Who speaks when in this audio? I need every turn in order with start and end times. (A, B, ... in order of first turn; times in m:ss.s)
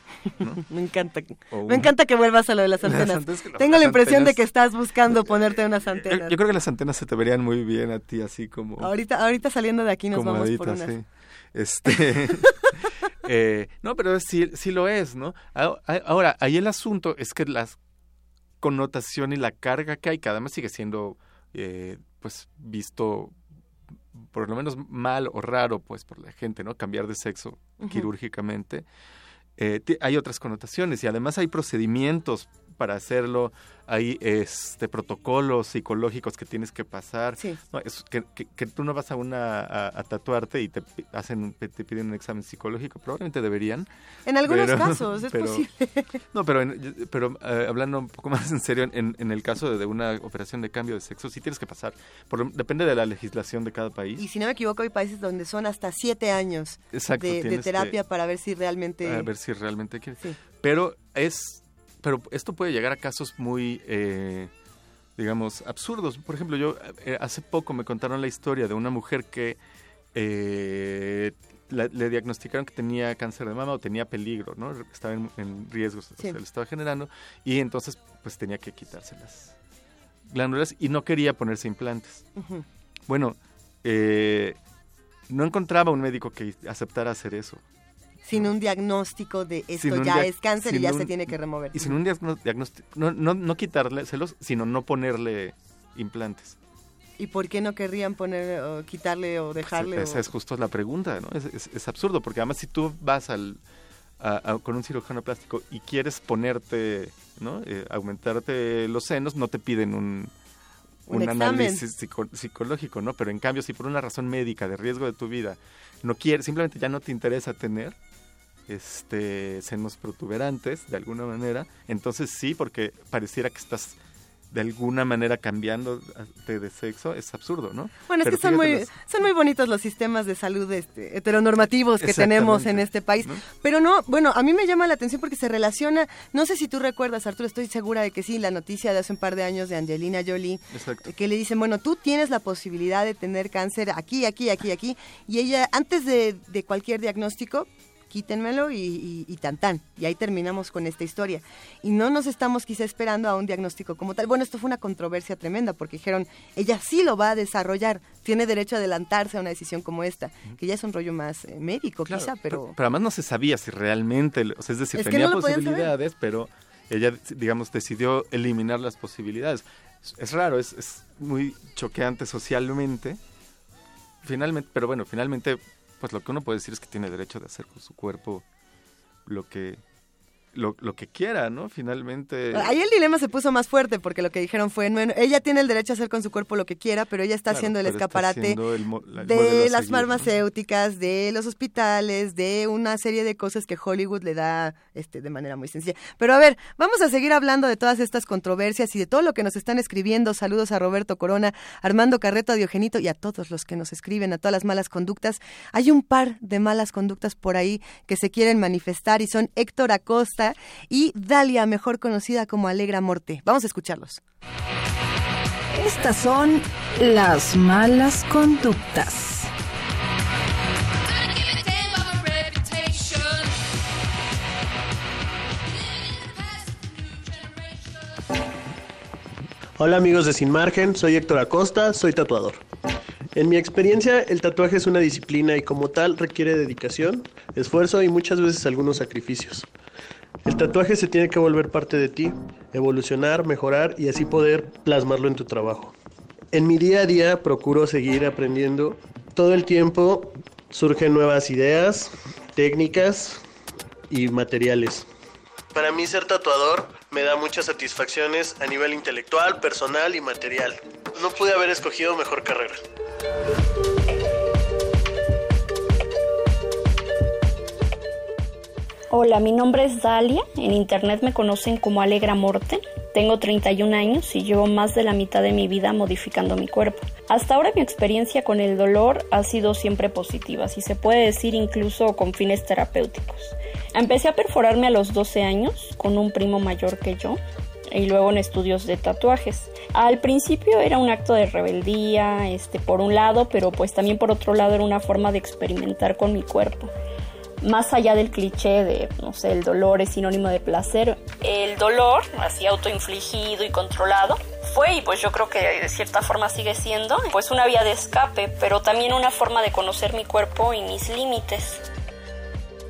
0:00.5-0:06.3 A
0:01.5-0:01.9 B
0:02.8-0:04.4 B
0:05.3-0:08.9 B
0:08.8-0:10.9 A
0:10.1-0:17.8 B
0:18.6-0:23.3 B
0:24.3-0:28.8 B
0:27.8-0:28.1 A
0:29.6-0:43.9 B
0:44.3-0:46.2 A
0:44.4-0:45.6 B
0:46.3-0:54.2 B
0:54.2-0:59.3 A
0:56.9-0:57.9 B
0:59.0-1:04.5 B
1:05.2-1:09.6 B
1:10.1-1:19.5 B
1:20.3-1:22.3 B
1:22.4-1:22.6 A
1:23.1-1:24.6 B
1:25.3-1:27.6 B
1:28.2-1:31.9 A
1:29.8-1:36.6 B
1:37.2-1:40.2 A
1:39.6-1:43.6 B
1:44.2-1:50.3 B
1:51.1-1:51.8 A
1:51.1-1:58.0 B
1:58.7-2:04.0 B
2:04.5-2:08.9 B
2:08.1-2:42.7 A
2:12.0-2:13.4 B
2:20.7-2:21.1 B
2:42.1-2:53.2 B
2:44.9-2:45.9 A
2:54.2-2:58.4 B
2:59.2-2:59.8 B
3:00.5-3:02.8 B
3:02.5-3:08.6 A
3:07.5-3:10.3 B
3:09.2-3:34.2 A
3:35.8-3:39.5 C
3:49.8-3:52.6 D
3:53.3-3:59.7 D
4:00.4-4:05.9 D
4:06.5-4:13.4 D
4:14.1-4:15.1 D
4:15.7-4:22.8 D
4:29.1-4:47.4 E
4:47.9-4:56.9 E
4:57.6-5:11.8 E